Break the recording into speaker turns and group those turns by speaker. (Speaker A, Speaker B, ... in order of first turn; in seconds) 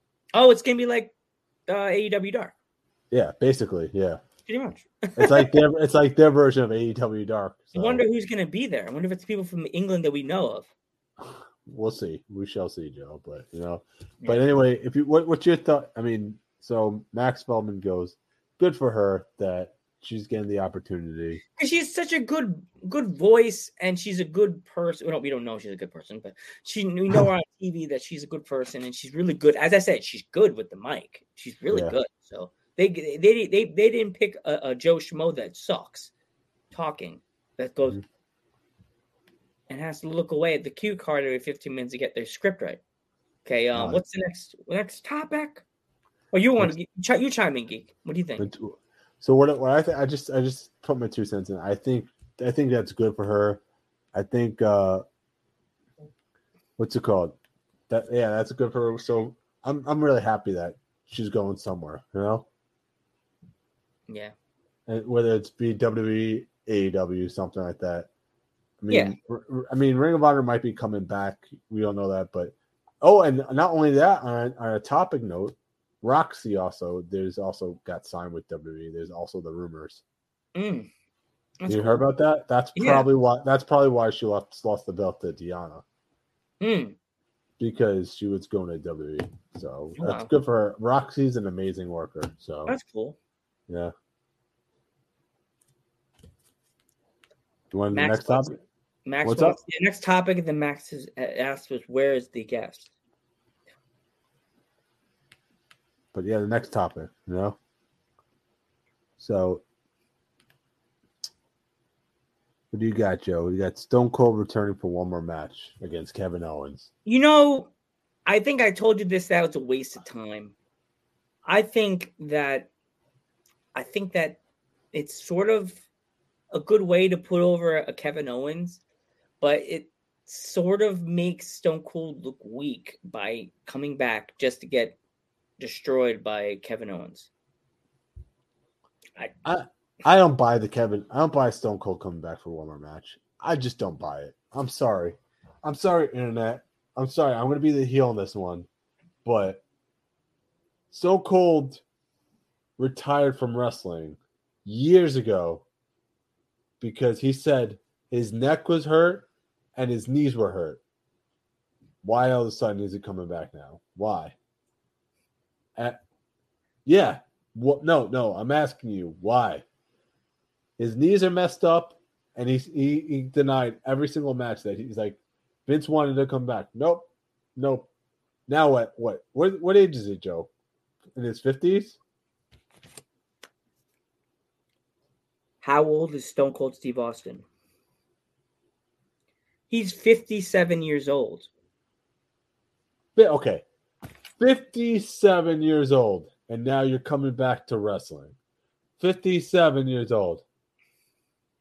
Speaker A: 0.3-1.1, 1.7-2.5, 4.5-5.6, 7.7-10.7, 21.6-36.1, 36.7-38.0, 39.7-42.8, 43.5-45.6, 46.3-48.5, 80.5-80.9, 81.6-82.0, 82.8-83.0, 86.6-87.0, 90.0-90.3, 92.7-93.2, 97.9-98.5, 99.1-102.9, 117.0-117.7, 118.3-120.5, 121.5-122.7, 123.7-124.4, 124.9-125.8, 126.5-128.8, 129.4-135.0, 135.6-137.3, 185.6-187.4, 189.7-191.5
Speaker B: 3.1-4.2, 5.2-8.0, 11.2-21.4, 43.8-44.0, 48.4-53.6, 54.1-55.0, 56.8-57.4, 57.9-62.5, 64.9-68.1, 68.8-80.0, 81.7-85.8, 87.6-92.8, 93.7-93.9, 97.7-98.6, 99.2-99.6, 106.1-107.6, 109.2-109.6, 112.7-116.9, 139.4-148.7, 149.2-149.6, 150.9-151.8, 152.8-155.7, 156.8-160.8, 162.0-164.4, 166.8-169.6, 170.8-177.9, 178.5-180.5, 181.2-182.0, 193.2-193.7, 194.4-198.3, 199.0-200.4